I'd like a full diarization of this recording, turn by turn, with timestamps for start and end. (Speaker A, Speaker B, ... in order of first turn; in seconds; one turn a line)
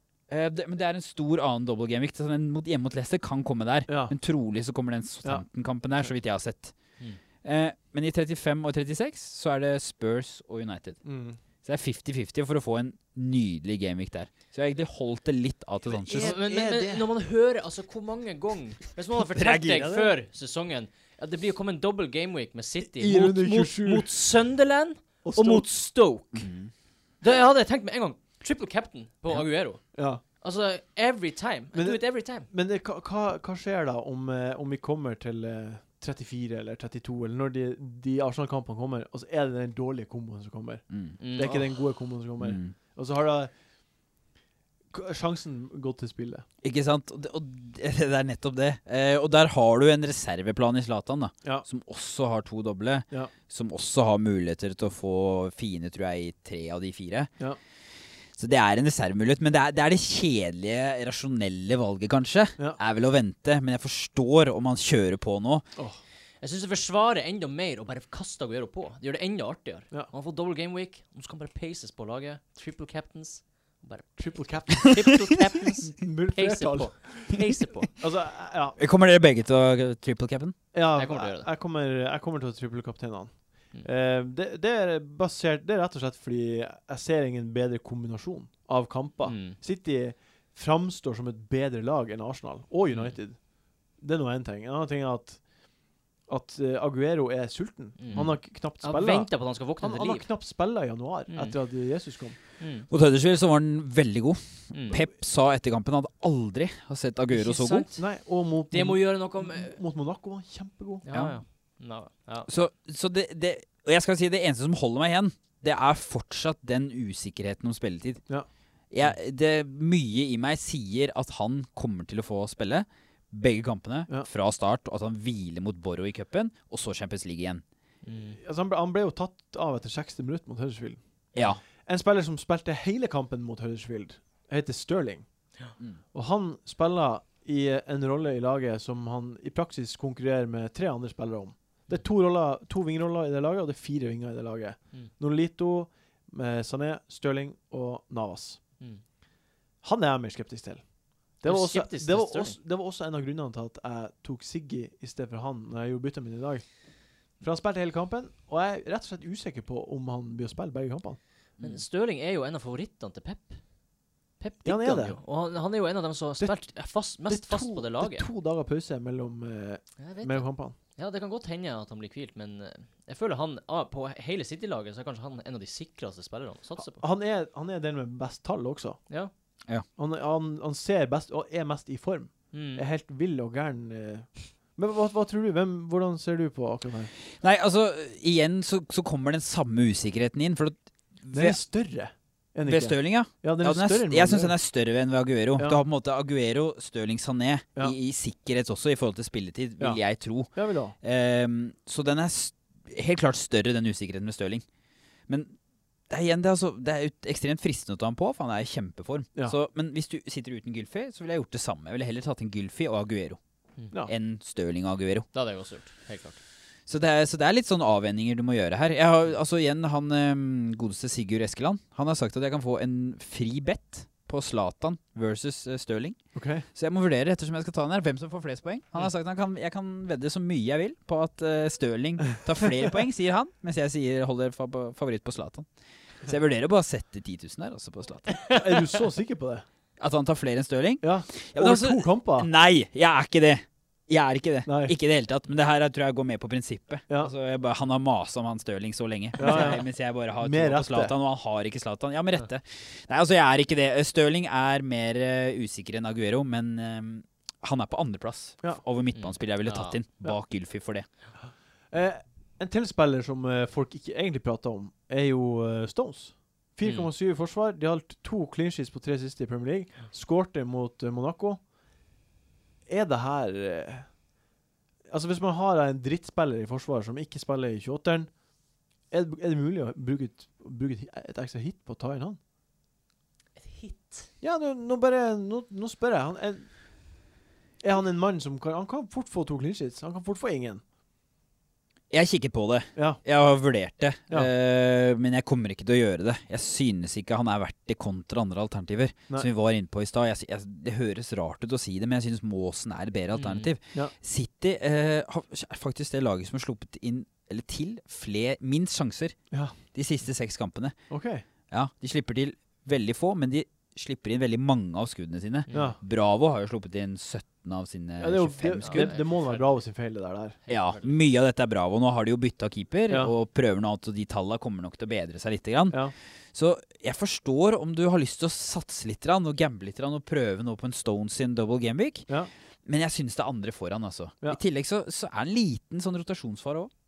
Speaker A: 0.3-6.8
Speaker B: 3.9-4.2
Speaker A: 7.4-11.0
Speaker B: 11.1-11.4
Speaker A: 11.6-16.4
Speaker B: 15.9-17.1
Speaker C: 16.1-26.5
Speaker A: 19.4-19.9
Speaker B: 19.5-20.1
Speaker B: 22.8-24.1
Speaker B: 25.2-25.7
Speaker A: 26.4-26.7
Speaker C: 27.2-32.5
Speaker B: 29.9-30.2
Speaker B: 31.7-40.8
Speaker A: 40.9-41.2
Speaker C: 41.2-41.7
Speaker B: 41.4-43.5
Speaker A: 42.4-42.7
Speaker B: 44.9-46.5
Speaker A: 46.6-57.3
Speaker A: 58.4-65.7
Speaker C: 66.4-78.0
Speaker B: 74.2-75.3
Speaker B: 75.9-78.8
Speaker A: 78.8-80.5
Speaker B: 80.7-102.4
Speaker C: 81.0-81.5
Speaker C: 89.2-89.6
Speaker C: 92.9-93.2
Speaker C: 98.0-100.3
Speaker C: 101.3-101.6
Speaker C: 102.6-102.9
Speaker A: 102.9-107.9
Speaker C: 104.7-105.0
Speaker C: 107.3-108.1
Speaker B: 108.0-111.0
Speaker C: 108.7-109.8
Speaker C: 111.0-112.5
Speaker A: 111.1-111.4
Speaker A: 112.5-118.3
Speaker A: 118.9-127.6
Speaker C: 128.0-128.4
Speaker B: 128.3-131.0
Speaker A: 131.3-131.6
Speaker B: 131.7-135.3
Speaker B: 136.1-148.6
Speaker B: 149.8-161.2
Speaker C: 151.4-152.6
Speaker C: 161.6-163.6
Speaker C: 164.4-168.3
Speaker B: 164.7-165.2
Speaker B: 166.4-170.8
Speaker C: 170.0-177.0
Speaker B: 176.8-179.1
Speaker B: 180.0-187.1
Speaker C: 182.5-182.8
Speaker A: 187.4-191.6
Speaker B: 191.3-194.6
Speaker A: 192.7-204.7
Speaker B: 199.8-201.0
Speaker A: 205.3-205.6
Speaker A: 206.1-213.4
Speaker A: 214.1-215.3
Speaker C: 215.3-216.4
Speaker A: 216.9-226.2
Speaker B: 226.3-226.7
Speaker A: 226.8-235.7
Speaker A: 236.2-238.4
Speaker C: 238.3-238.6
Speaker B: 238.5-239.7
Speaker A: 240.0-261.1
Speaker B: 241.0-242.5
Speaker B: 244.7-244.9
Speaker B: 249.4-251.1
Speaker C: 259.1-260.0
Speaker B: 261.9-271.6
Speaker C: 266.8-267.1
Speaker B: 272.9-274.1
Speaker B: 275.1-278.3
Speaker B: 279.1-282.4
Speaker C: 283.6-284.3
Speaker B: 284.4-286.7
Speaker B: 287.8-290.8
Speaker A: 292.1-309.4
Speaker B: 293.0-293.2
Speaker C: 303.3-303.7
Speaker A: 309.9-310.9
Speaker B: 311.1-311.4
Speaker A: 311.7-319.2
Speaker C: 315.7-316.0
Speaker B: 315.7-316.0
Speaker B: 318.2-320.6
Speaker C: 318.8-319.8
Speaker C: 320.7-321.2
Speaker A: 320.7-326.0
Speaker A: 326.5-332.3
Speaker A: 332.9-336.9